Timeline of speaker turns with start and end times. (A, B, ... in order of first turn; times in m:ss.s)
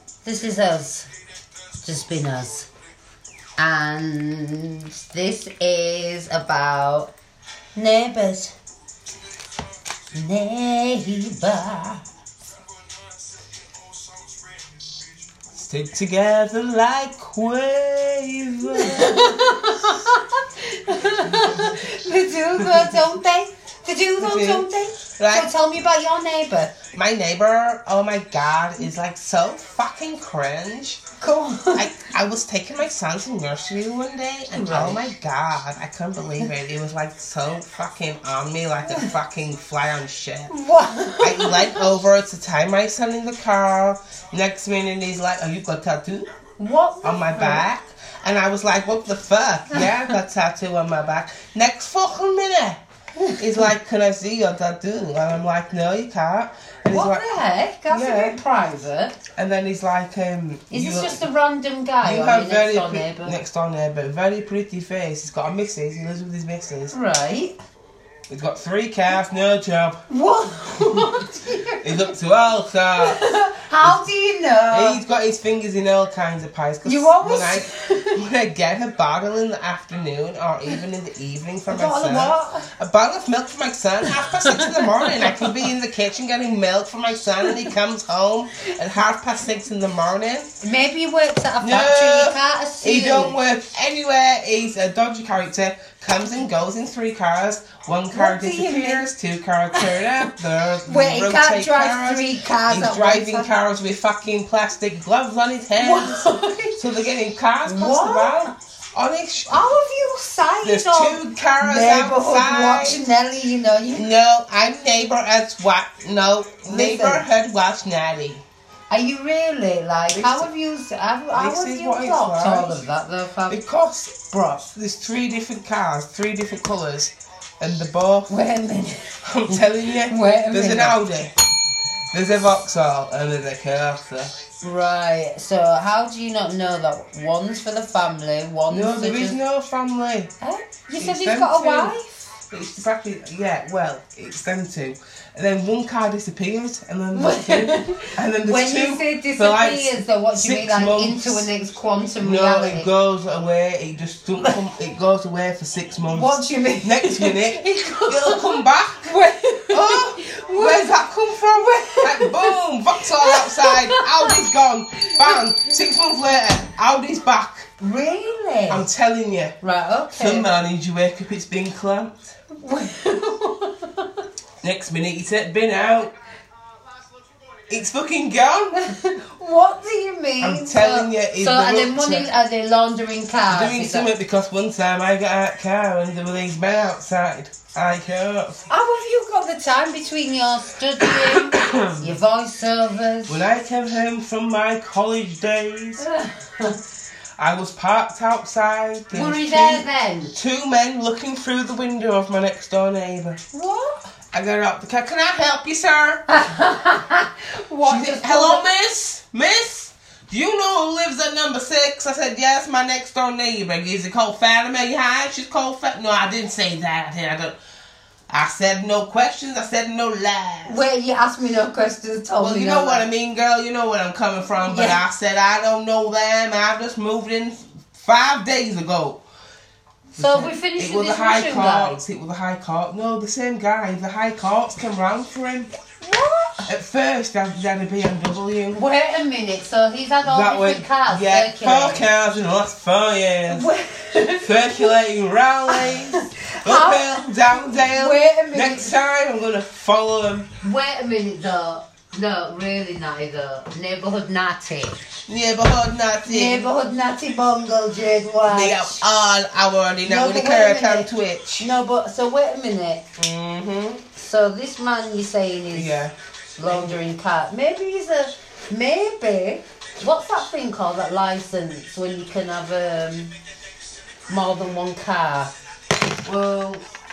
0:00.2-0:01.1 A
0:01.8-0:02.7 A
0:03.6-0:07.1 A
0:07.8-0:08.5 A
0:10.1-0:12.0 A
0:15.5-0:19.2 B
0:18.7-0:26.8 A
0:21.0-0:21.7 B
0:22.6-0:22.9 B
0:24.2-0:25.5 B
0:26.9-0:31.0 B
0:31.2-0:32.1 A
0:31.7-0:40.5 B
0:34.5-0:35.1 A
0:38.8-0:39.1 A
0:40.5-0:42.0 A
0:41.2-0:46.3 B
0:46.6-0:47.7 A
0:47.0-0:52.8 B
0:49.7-0:50.1 A
0:53.2-0:53.7 A
0:53.4-0:57.3 B
0:56.9-0:59.2 A
0:57.9-0:58.4 B
0:59.4-1:01.3 B
1:00.7-1:03.4 A
1:02.0-1:06.9 B
1:06.9-1:07.6 A
1:08.3-1:10.0 B
1:10.1-1:12.2 A
1:11.8-1:13.2 B
1:13.0-1:15.0 A
1:14.7-1:30.5 B
1:16.8-1:18.2 A
1:21.6-1:22.7 A
1:24.0-1:25.7 A
1:27.4-1:27.7 A
1:30.6-1:33.4 A
1:31.6-1:49.7 B
1:38.1-1:39.1 A
1:39.7-1:40.3 A
1:40.8-1:43.5 A
1:45.8-1:46.8 A
1:47.6-1:48.5 A
1:49.5-1:54.1 A
1:50.6-1:53.0 B
1:53.9-1:58.4 B
1:56.6-1:57.2 A
1:58.9-2:03.6 A
2:00.1-2:00.5 B
2:01.3-2:02.8 B
2:03.5-2:08.3 B
2:04.3-2:04.7 A
2:08.3-2:11.0 A
2:09.2-2:11.3 B
2:12.1-2:14.3 B
2:14.6-2:19.4 A
2:18.7-2:20.3 B
2:20.4-2:22.3 A
2:21.0-2:21.9 B
2:22.5-2:31.5 B
2:27.1-2:32.9 A
2:32.2-2:39.2 B
2:36.0-2:44.5 A
2:39.7-2:47.7 B
2:45.0-2:45.5 A
2:47.8-2:48.9 A
2:48.7-2:49.6 B
2:49.6-2:50.5 A
2:50.1-2:52.4 B
2:52.6-2:54.2 A
2:54.6-2:56.1 B
2:57.7-2:58.9 B
2:58.7-3:04.1 A
3:00.4-3:02.3 B
3:03.5-3:08.6 B
3:08.7-3:13.4 A
3:11.0-3:12.1 B
3:13.3-3:16.0 B
3:16.0-3:16.8 A
3:17.4-3:23.4 B
3:19.1-3:20.3 A
3:23.5-3:24.1 A
3:24.3-3:26.2 B
3:26.3-3:28.6 A
3:27.8-3:37.6 B
3:38.3-3:40.8 B
3:40.6-3:43.0 A
3:42.4-3:49.2 B
3:44.6-3:45.0 A
3:50.2-3:52.0 A
3:50.2-3:55.7 B
3:56.0-3:56.7 A
3:56.6-3:58.8 B
3:58.7-4:02.1 A
4:00.2-4:03.7 B
4:03.5-4:05.0 A
4:04.4-4:10.5 B
4:05.7-4:09.0 A
4:10.6-4:15.1 A
4:15.3-4:16.7 B
4:16.2-4:19.1 A
4:18.4-4:21.7 B
4:20.0-4:23.0 A
4:23.2-4:24.0 B
4:24.2-4:26.0 A
4:25.7-4:26.1 B
4:26.6-4:33.4 A
4:26.7-4:27.0 B
4:34.3-4:35.5 A
4:36.2-4:36.8 A